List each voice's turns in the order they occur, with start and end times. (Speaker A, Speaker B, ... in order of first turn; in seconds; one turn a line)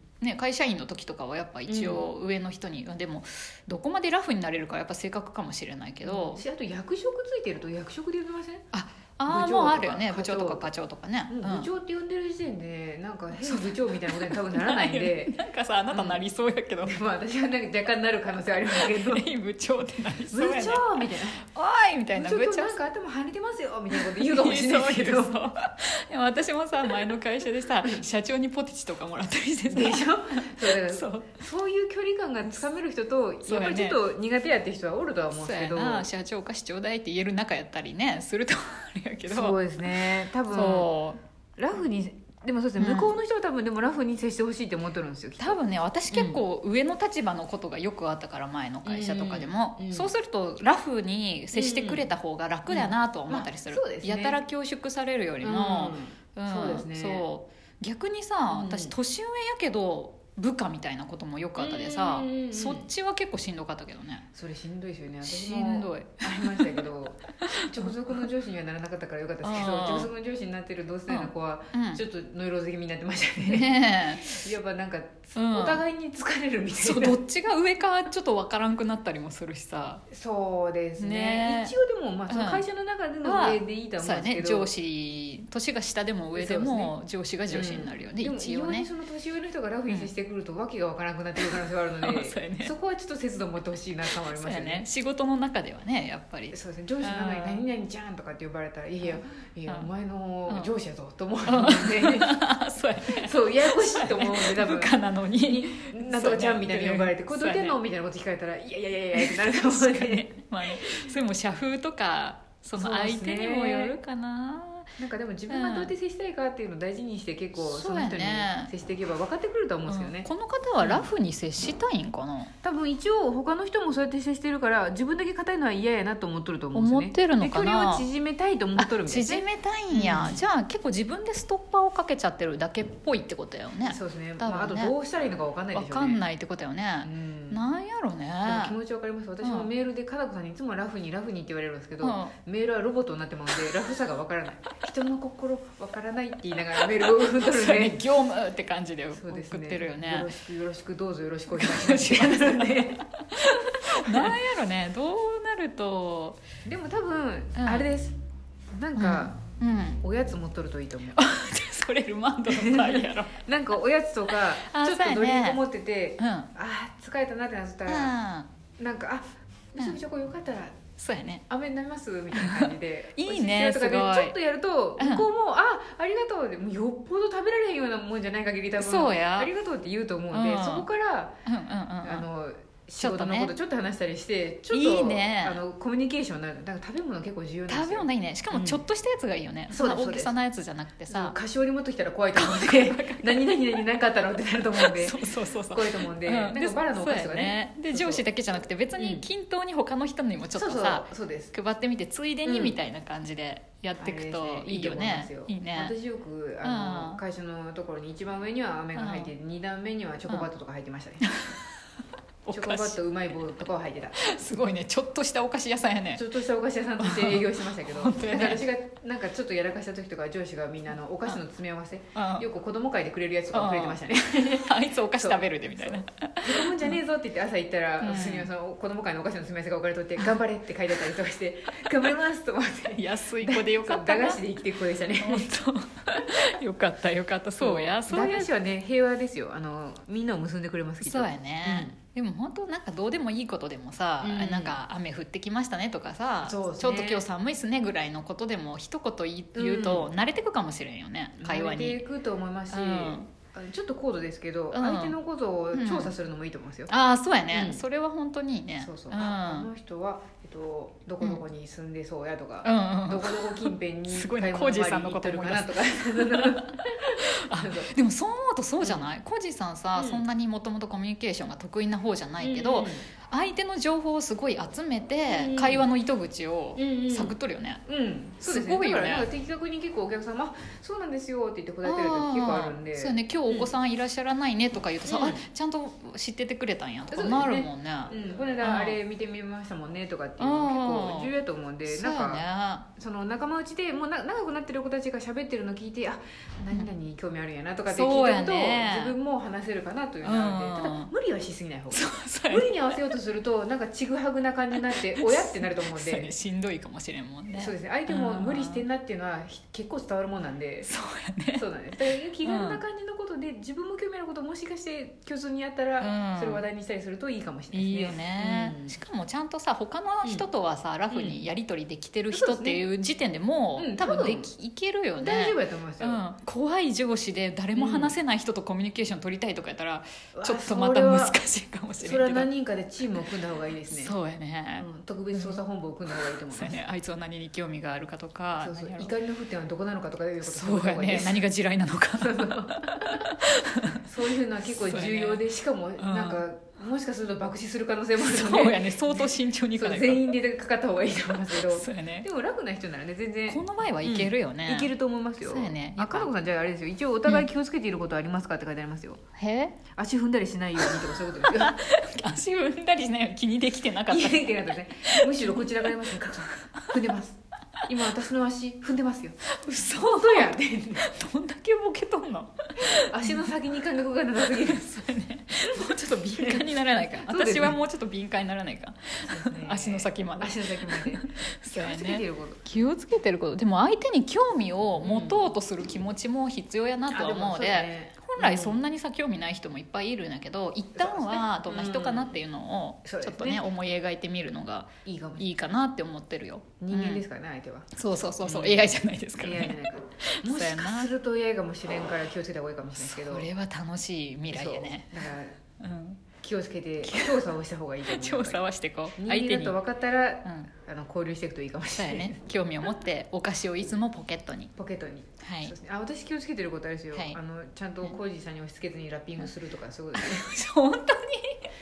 Speaker A: 0.2-6.4
Speaker B: 1.7-2.1
Speaker B: 6.0-8.7
Speaker A: 8.7-11.7
Speaker B: 9.3-10.7
Speaker B: 11.3-15.4
Speaker A: 13.3-17.0
Speaker B: 15.9-16.2
Speaker B: 16.9-19.2
Speaker A: 18.7-22.8
Speaker B: 20.3-21.4
Speaker B: 22.1-25.4
Speaker A: 23.9-31.4
Speaker B: 29.7-36.1
Speaker A: 33.5-34.0
Speaker A: 35.4-39.6
Speaker B: 39.3-40.9
Speaker A: 40.5-41.2
Speaker B: 41.6-45.6
Speaker A: 42.8-43.1
Speaker A: 45.4-64.3
Speaker B: 46.1-46.4
Speaker B: 48.9-50.1
Speaker B: 51.5-52.1
Speaker B: 52.7-54.4
Speaker B: 55.4-57.3
Speaker B: 58.5-58.9
Speaker B: 61.6-62.9
Speaker B: 64.3-77.2
Speaker A: 65.2-66.8
Speaker A: 67.4-67.9
Speaker A: 69.4-70.1
Speaker A: 71.1-72.0
Speaker A: 73.4-74.4
Speaker A: 75.3-75.8
Speaker A: 76.8-80.0
Speaker B: 80.1-84.7
Speaker A: 81.0-81.8
Speaker A: 82.3-82.6
Speaker A: 83.2-88.9
Speaker B: 86.3-86.9
Speaker B: 87.5-94.9
Speaker A: 92.0-92.7
Speaker A: 94.2-97.7
Speaker B: 96.5-102.4
Speaker A: 101.5-107.8
Speaker B: 103.1-104.9
Speaker B: 105.4-110.3
Speaker A: 109.2-114.9
Speaker B: 112.8-114.0
Speaker B: 115.0-120.3
Speaker A: 115.5-115.9
Speaker A: 117.6-118.7
Speaker A: 119.9-122.5
Speaker B: 120.8-121.1
Speaker B: 122.6-130.4
Speaker A: 126.7-128.1
Speaker A: 128.8-134.9
Speaker B: 133.8-136.2
Speaker A: 135.7-138.8
Speaker B: 137.0-137.6
Speaker B: 138.4-148.1
Speaker A: 139.4-139.7
Speaker A: 142.0-142.3
Speaker A: 147.0-150.3
Speaker B: 149.1-153.0
Speaker A: 151.5-156.4
Speaker B: 156.7-158.2
Speaker A: 157.6-157.8
Speaker B: 158.7-159.4
Speaker A: 159.0-160.0
Speaker B: 160.0-161.2
Speaker A: 161.2-163.4
Speaker B: 162.5-168.1
Speaker A: 164.7-165.6
Speaker A: 166.2-166.5
Speaker A: 167.9-168.5
Speaker B: 168.8-170.8
Speaker A: 171.0-171.4
Speaker B: 171.5-181.4
Speaker A: 172.4-174.3
Speaker A: 175.0-175.3
Speaker A: 178.8-179.5
Speaker A: 180.3-180.9
Speaker A: 181.5-182.3
Speaker B: 182.0-188.8
Speaker A: 183.0-183.5
Speaker A: 184.7-185.6
Speaker A: 187.7-191.3
Speaker B: 189.7-190.3
Speaker B: 191.1-195.2
Speaker A: 192.3-193.8
Speaker A: 194.8-205.9
Speaker B: 195.7-198.2
Speaker B: 199.0-199.2
Speaker B: 200.5-201.5
Speaker B: 202.4-202.8
Speaker B: 204.0-211.2
Speaker A: 206.6-207.2
Speaker A: 208.9-209.3
Speaker A: 211.3-211.6
Speaker A: 212.4-213.0
Speaker B: 212.5-214.2
Speaker A: 214.2-216.2
Speaker B: 216.2-235.5
Speaker A: 217.0-218.6
Speaker A: 222.2-222.4
Speaker A: 223.5-227.0
Speaker A: 228.0-228.5
Speaker A: 232.9-234.4
Speaker A: 235.2-238.5
Speaker B: 237.6-241.9
Speaker A: 241.0-252.0
Speaker B: 244.2-244.8
Speaker B: 246.4-247.2
Speaker B: 249.6-250.1
Speaker B: 251.4-256.9
Speaker A: 252.7-253.3
Speaker A: 254.7-255.2
Speaker A: 255.7-256.1
Speaker A: 256.9-259.7
Speaker B: 257.5-257.8
Speaker B: 258.8-267.9
Speaker A: 262.6-277.8
Speaker B: 268.8-269.1
Speaker B: 269.9-270.2
Speaker B: 272.4-273.1
Speaker B: 275.3-275.9
Speaker B: 276.8-277.3
Speaker B: 277.9-283.7
Speaker A: 278.4-279.3
Speaker A: 281.8-289.0
Speaker B: 285.1-285.4
Speaker B: 287.1-292.4
Speaker A: 290.4-291.3
Speaker A: 291.9-292.9
Speaker B: 293.0-306.3
Speaker A: 297.9-299.1
Speaker A: 300.2-301.1
Speaker A: 301.9-302.8
Speaker A: 304.9-308.8
Speaker B: 307.6-310.9
Speaker A: 310.9-311.6
Speaker B: 311.6-319.0
Speaker A: 312.4-312.8
Speaker A: 316.0-316.6
Speaker A: 317.7-332.5
Speaker B: 321.1-321.4
Speaker B: 322.3-322.8
Speaker B: 323.8-324.5
Speaker B: 325.2-326.2
Speaker B: 327.8-328.1
Speaker B: 330.4-331.4
Speaker B: 332.0-334.1
Speaker A: 333.9-335.6
Speaker B: 334.8-336.8
Speaker A: 336.5-339.1
Speaker B: 338.6-341.4
Speaker A: 340.4-344.0
Speaker B: 342.2-343.3
Speaker B: 344.0-359.2
Speaker A: 344.7-345.4
Speaker A: 346.0-346.4
Speaker A: 348.2-350.3
Speaker A: 351.5-352.3
Speaker A: 353.5-356.3
Speaker A: 359.4-359.8
Speaker B: 359.9-361.8
Speaker A: 361.4-365.8
Speaker B: 364.1-369.4
Speaker A: 369.6-373.5
Speaker B: 369.9-371.1
Speaker B: 372.9-374.9
Speaker A: 374.6-397.2
Speaker B: 375.6-376.7
Speaker B: 377.2-377.8
Speaker B: 379.2-382.9
Speaker B: 385.0-385.5
Speaker B: 387.1-388.8
Speaker B: 391.0-392.4
Speaker B: 393.1-393.7
Speaker B: 395.1-395.5
Speaker B: 396.8-403.5
Speaker A: 397.9-401.1
Speaker A: 403.0-405.3
Speaker B: 404.5-405.6
Speaker A: 405.8-406.2
Speaker B: 406.4-408.6
Speaker A: 407.0-407.4
Speaker A: 408.1-409.8
Speaker B: 409.2-412.4
Speaker A: 410.4-410.7
Speaker A: 412.0-414.7
Speaker B: 414.8-420.5
Speaker A: 415.4-415.7
Speaker A: 420.2-421.6